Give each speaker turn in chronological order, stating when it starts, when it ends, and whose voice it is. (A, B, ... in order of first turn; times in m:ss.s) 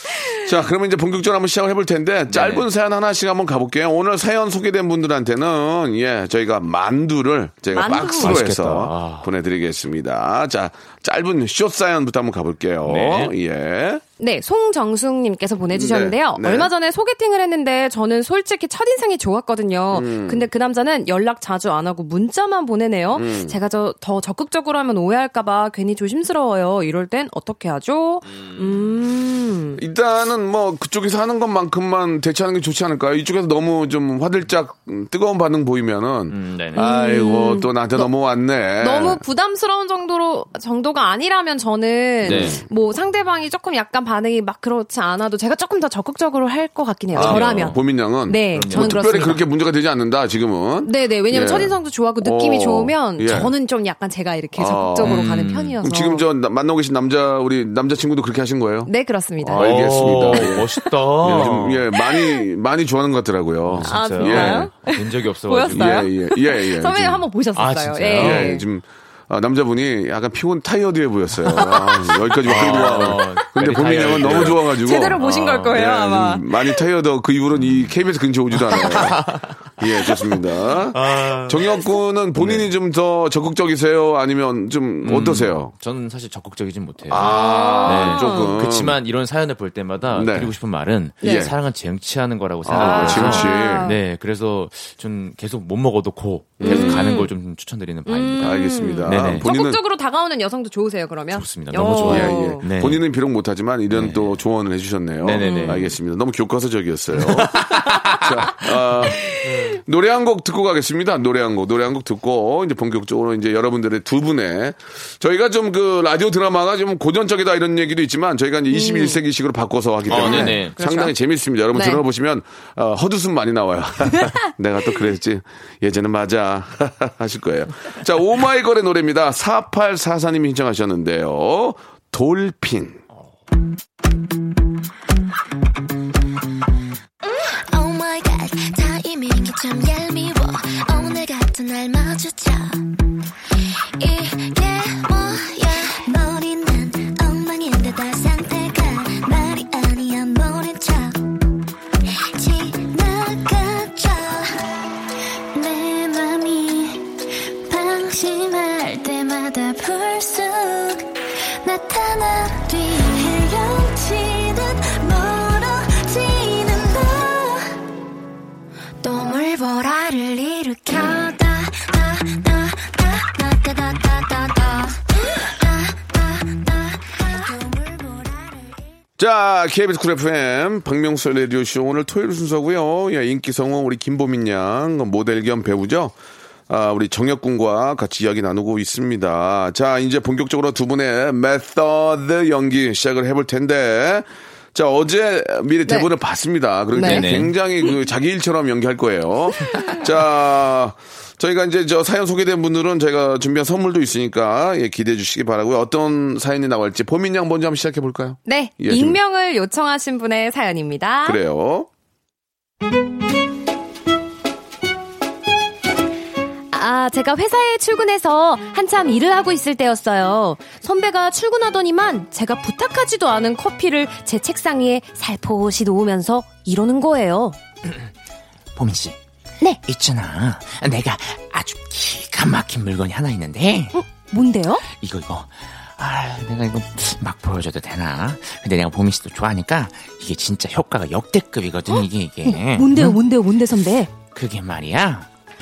0:00.4-0:14.0 A
0:02.3-0:02.7 B
0:07.7-0:08.4 C
0:07.8-0:09.3 B
0:12.8-0:13.3 B
0:14.2-0:29.8 C
0:15.7-0:16.7 A
0:19.9-0:20.5 A
0:23.1-0:23.6 A
0:29.8-0:39.2 A
0:36.3-0:36.8 B
0:36.7-0:38.1 C
0:38.8-0:49.4 C
0:42.2-0:42.6 A
0:42.2-0:42.6 B
0:47.1-0:47.8 B
0:47.1-0:53.5 A
0:48.5-0:49.4 B
0:50.8-0:56.2 C
0:54.5-0:55.2 A
0:55.0-0:55.8 B
0:55.8-1:04.7 A
0:58.8-1:00.5 C
0:59.6-1:01.8 B
1:02.0-1:02.4 C
1:03.7-1:06.1 B
1:03.8-1:08.6 C
1:05.7-1:07.2 A
1:07.6-1:08.5 B
1:08.1-1:19.2 A
1:11.6-1:11.8 C
1:12.4-1:15.9 B
1:12.5-1:13.2 C
1:13.8-1:16.8 C
1:17.5-1:18.0 B
1:18.6-1:19.5 B
1:19.8-1:25.7 A
1:20.9-1:21.8 B
1:22.4-1:22.7 B
1:25.0-1:27.3 B
1:27.1-1:29.0 A
1:27.2-1:28.5 C
1:27.8-1:39.4 B
1:30.1-1:30.5 A
1:31.2-1:31.5 C
1:31.2-1:31.5 A
1:32.6-1:33.9 A
1:32.7-1:34.0 C
1:36.6-1:37.1 A
1:36.6-1:37.3 C
1:38.0-1:42.6 C
1:38.4-1:39.8 A
1:41.3-1:43.0 B
1:42.0-2:13.0 A
1:43.9-1:44.4 B
1:45.2-1:46.0 B
1:45.4-1:45.8 C
1:47.2-1:48.2 B
1:49.1-1:49.6 C
1:58.7-1:59.2 C
2:00.1-2:00.8 B
2:00.1-2:01.1 C
2:01.7-2:02.0 C
2:17.2-2:22.9 D
2:24.0-2:31.3 D
2:32.3-2:34.6 D
2:35.5-2:37.0 D
2:37.7-2:47.7 D
2:49.0-2:58.8 D
2:59.2-3:06.1 A
3:06.7-3:29.2 A
3:16.9-3:17.2 C
3:16.9-3:17.5 B
3:28.4-3:31.4 C
3:31.2-3:31.9 A
3:36.7-3:47.6 C
3:48.8-3:49.2 B
3:49.8-3:53.9 B
3:53.9-3:54.8 C
3:55.0-4:03.2 B
4:01.9-4:04.1 C
4:04.3-4:05.2 B